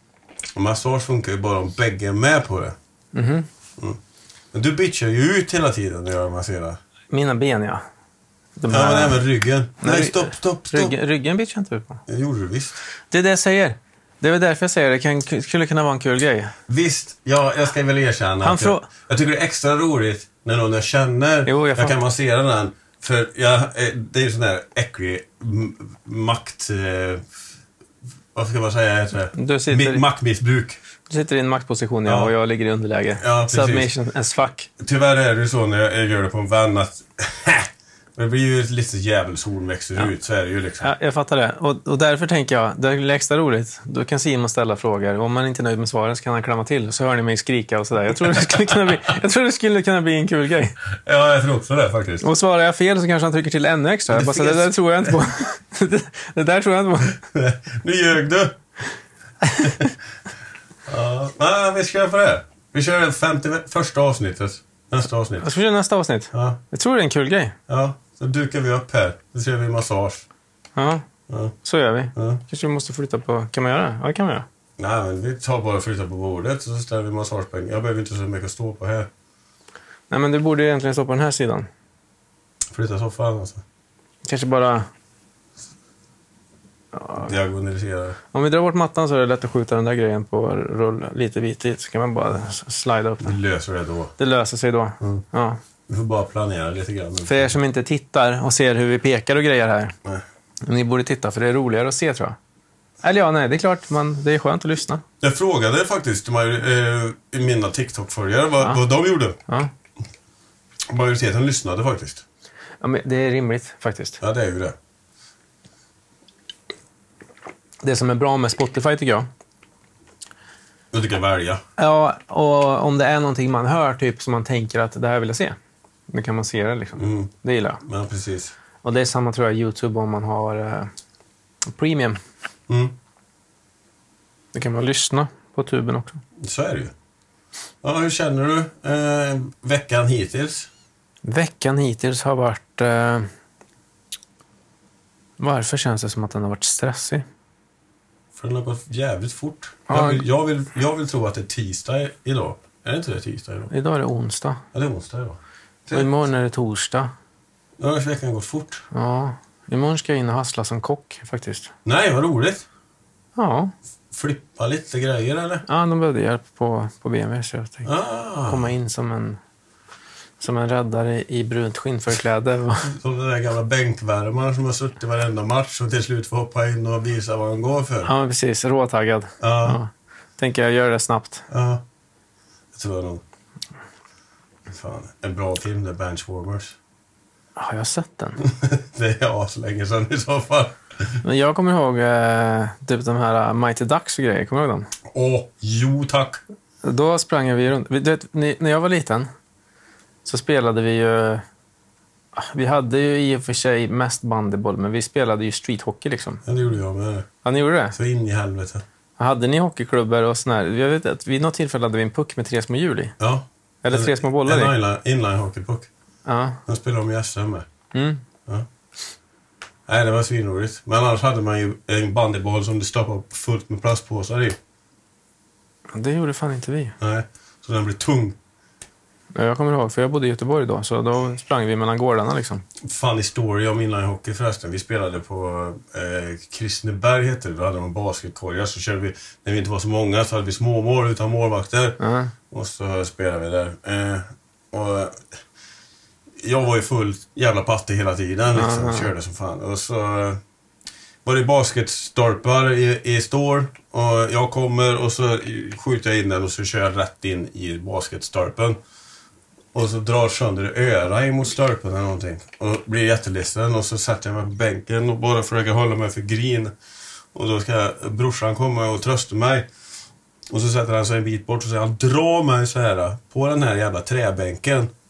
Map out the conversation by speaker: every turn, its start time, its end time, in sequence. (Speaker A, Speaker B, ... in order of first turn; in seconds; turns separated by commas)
Speaker A: 0.5-2.7, Speaker B: 3.1-3.5, Speaker A: 4.5-6.8, Speaker B: 7.1-7.8, Speaker B: 8.6-9.2, Speaker A: 8.7-10.9, Speaker B: 9.8-12.0, Speaker A: 12.1-12.8, Speaker B: 13.1-16.5, Speaker A: 16.7-27.2, Speaker B: 18.4-18.9, Speaker B: 21.5-21.9, Speaker A: 28.3-30.8, Speaker B: 29.3-30.0, Speaker B: 31.1-34.7, Speaker A: 32.0-32.3, Speaker A: 33.2-33.9, Speaker A: 34.8-40.9, Speaker B: 40.8-50.8, Speaker A: 51.0-52.3, Speaker B: 52.2-57.2, Speaker A: 54.1-55.2, Speaker A: 57.2-58.5, Speaker B: 59.4-59.9, Speaker A: 59.6-59.9, Speaker A: 60.9-65.5, Speaker B: 65.4-67.6, Speaker A: 66.3-66.6, Speaker A: 67.7-70.2, Speaker B: 70.8-71.0, Speaker A: 71.3-71.5, Speaker B: 71.6-74.5, Speaker A: 72.1-72.4, Speaker A: 74.8-79.1, Speaker B: 80.1-81.7, Speaker A: 82.7-83.6, Speaker B: 84.2-84.9, Speaker B: 87.0-87.3, Speaker A: 87.2-88.2, Speaker B: 88.3-93.4, Speaker A: 93.2-94.1, Speaker B: 94.2-95.6, Speaker A: 95.9-97.5, Speaker B: 97.2-100.0, Speaker B: 100.6-102.4, Speaker B: 103.0-105.0, Speaker A: 105.2-109.4, Speaker B: 109.5-109.7, Speaker A: 110.9-112.2, Speaker B: 112.8-114.2, Speaker A: 114.2-114.7, Speaker B: 117.8-119.3, Speaker A: 120.9-121.6, Speaker B: 121.8-125.6, Speaker B: 126.1-127.8, Speaker A: 127.0-127.3, Speaker A: 127.8-128.5, Speaker B: 128.8-130.9, Speaker B: 131.7-132.2, Speaker A: 132.7-132.9, Speaker B: 134.5-136.2, Speaker A: 136.4-136.9, Speaker A: 137.8-140.7, Speaker B: 141.2-143.3, Speaker B: 145.4-147.2, Speaker A: 148.3-153.7, Speaker B: 149.9-150.2, Speaker B: 153.7-154.6, Speaker A: 154.7-156.1, Speaker B: 155.9-157.1, Speaker A: 157.8-158.8, Speaker B: 158.9-161.7, Speaker A: 161.8-162.6, Speaker B: 163.3-163.7, Speaker A: 164.1-165.6, Speaker B: 165.7-167.9, Speaker A: 167.8-168.7, Speaker B: 168.4-169.4, Speaker B: 170.4-172.9, Speaker A: 172.8-178.1, Speaker B: 178.0-181.5, Speaker A: 179.4-179.8, Speaker A: 181.5-181.8, Speaker A: 182.7-183.2, Speaker A: 184.7-186.8, Speaker B: 187.6-188.4, Speaker A: 188.4-191.2, Speaker B: 191.2-194.9, Speaker A: 195.1-196.4, Speaker B: 196.8-199.3, Speaker B: 200.2-201.4, Speaker B: 202.3-206.4, Speaker A: 206.4-207.3, Speaker B: 207.4-207.9, Speaker A: 207.9-208.8, Speaker B: 209.2-213.2, Speaker A: 213.2-215.9, Speaker B: 213.8-214.7, Speaker B: 216.2-216.6, Speaker A: 216.7-217.7, Speaker B: 217.9-218.2, Speaker A: 219.9-224.6, Speaker B: 225.9-226.9, Speaker A: 227.0-228.4, Speaker B: 229.3-232.6, Speaker A: 232.8-245.3, Speaker B: 242.0-242.3, Speaker A: 246.4-250.4, Speaker B: 248.5-249.1, Speaker A: 251.2-258.8, Speaker A: 259.7-266.7, Speaker A: 267.3-269.7, Speaker A: 270.5-274.9